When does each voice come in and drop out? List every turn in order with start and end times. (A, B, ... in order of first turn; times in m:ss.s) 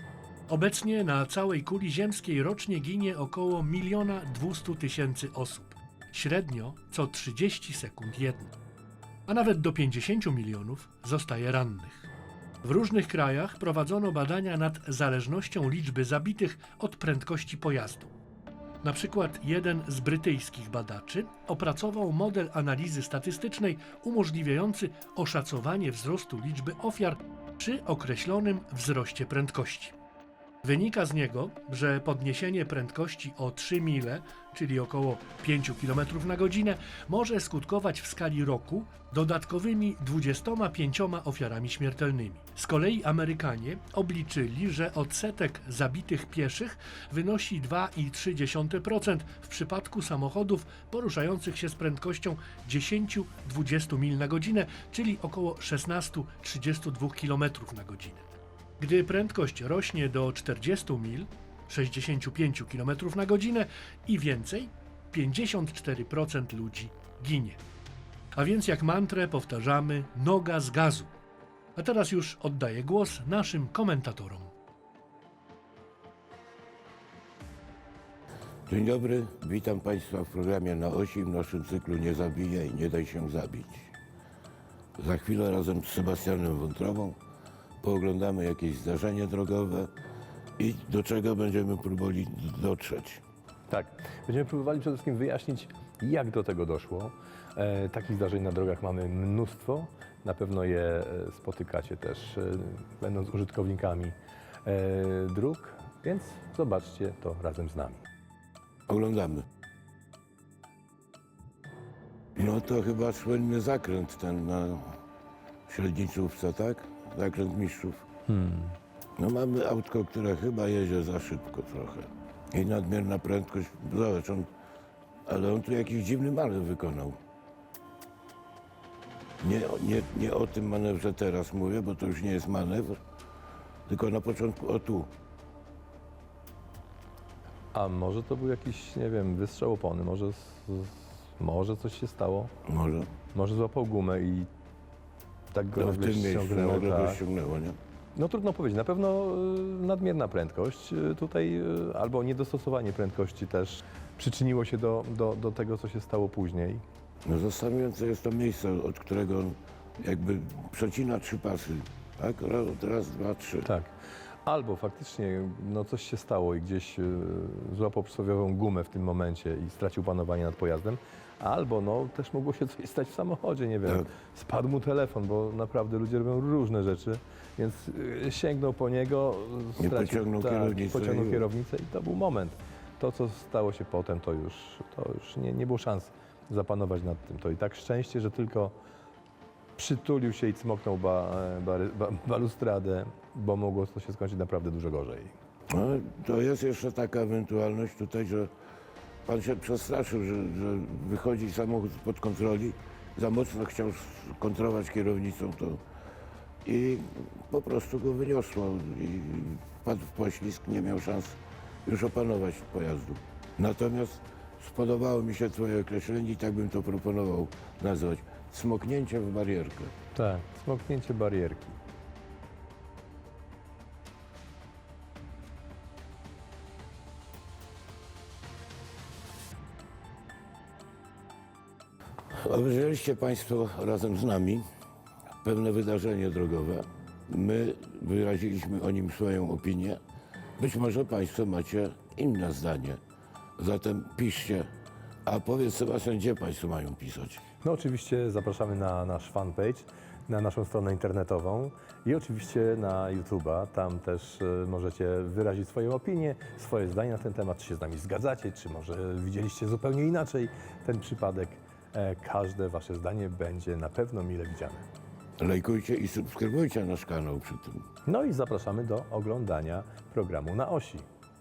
0:00.5-0:08.5 A
0:09.3-0:12.1 A
0:12.6-0:18.1 A
0:18.8-0:29.9 A
0:30.6-1:07.6 A
1:08.3-1:11.1 A
1:11.8-1:14.5 A
1:18.7-1:23.9 B
1:25.0-1:27.2 B
1:27.8-1:29.9 B
1:30.6-1:33.2 B
1:33.7-1:48.0 C
1:48.9-1:49.4 B
1:52.4-1:55.0 B
1:55.7-1:58.0 B
1:58.3-1:58.8 C
1:59.2-2:04.5 B
2:05.3-2:07.2 B
2:09.4-2:13.0 B
2:13.9-2:15.1 B
2:17.7-2:22.5 C
2:22.6-2:23.1 B
2:23.3-2:24.5 C
2:25.5-2:27.2 C
2:25.7-2:27.8 B
2:28.1-2:36.8 C
2:37.2-2:43.6 B
2:43.6-2:43.9 C
2:44.4-3:08.7 C
2:59.8-3:01.4 B
3:09.8-3:15.3 C
3:15.7-3:18.5 B
3:19.2-3:25.8 B
3:26.6-3:39.9 B
3:40.1-3:41.8 C
3:52.3-3:54.6 B
3:55.4-4:00.0 B
4:00.6-4:03.0 B
4:03.6-4:04.7 B
4:05.2-4:07.4 B
4:07.6-4:24.8 C
4:25.4-4:27.8 B
4:28.0-4:31.0 C